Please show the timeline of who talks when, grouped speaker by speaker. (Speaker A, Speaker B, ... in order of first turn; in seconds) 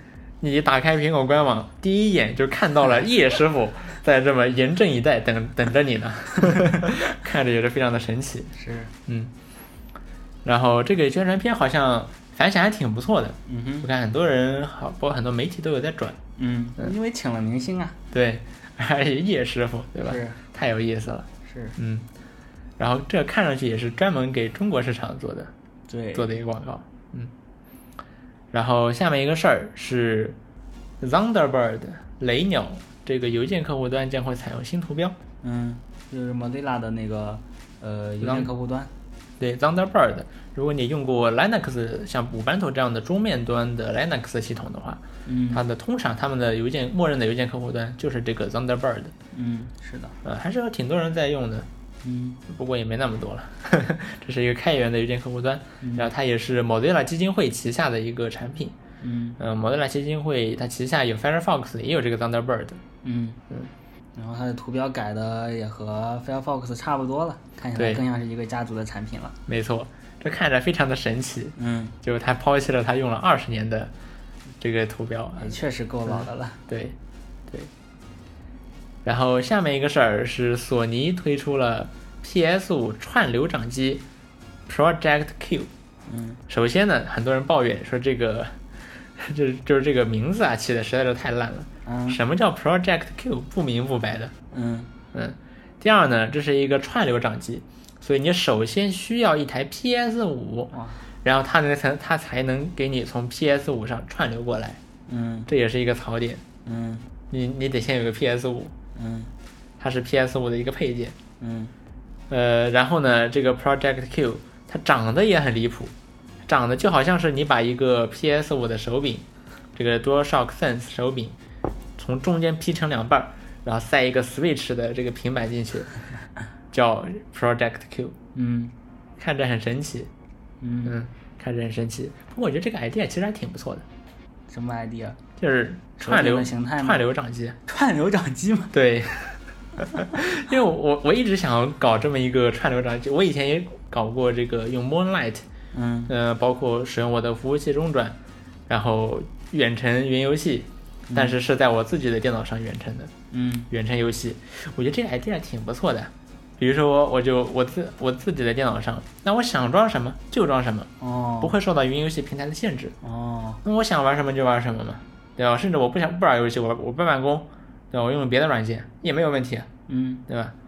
Speaker A: 0.4-8.5, 9.1-9.3, 10.4-16.2, 18.1-22.1, 22.8-25.5, 26.1-27.3, 28.5-30.4, 31.0-35.1, 38.2-38.5, 39.4-49.1, 50.2-51.7, 52.5-58.7, 59.4-62.8, 67.8-68.0, 69.5-73.9, 74.6-77.0, 79.0-84.0, 84.7-85.7, 86.5-88.6, 89.2-94.3, 95.1-100.7, 101.2-104.8, 105.5-106.4, 107.3-108.7, 109.8-111.1, 112.3-115.9, 116.5-121.3, 122.0-125.9, 126.7-128.1, 129.2-130.1, 130.8-133.8, 135.4-137.6, 138.7-145.4, 146.1-148.2, 148.7-153.1, 153.7-162.9, 163.6-169.7, 170.3-170.5
Speaker B: 8.5-8.9, 13.5-13.9, 16.4-18.0, 20.0-20.4, 21.4-21.8, 25.9-26.3, 35.4-38.9, 45.2-45.6, 49.3-50.1, 52.0-52.4, 55.8-56.1, 59.0-59.4, 63.0-63.4, 64.1-69.3, 71.6-71.9, 75.4-76.6, 86.1-86.4, 91.8-92.2, 94.5-94.9, 100.7-101.0, 105.1-105.5, 106.7-107.1, 108.9-109.3, 111.4-111.7, 128.3-128.7, 130.6-130.9, 134.5-135.2, 136.0-137.1, 137.7-138.7, 145.7-146.1, 151.1-151.3, 153.3-153.7, 161.0-161.5, 163.0-163.6, 169.9-170.2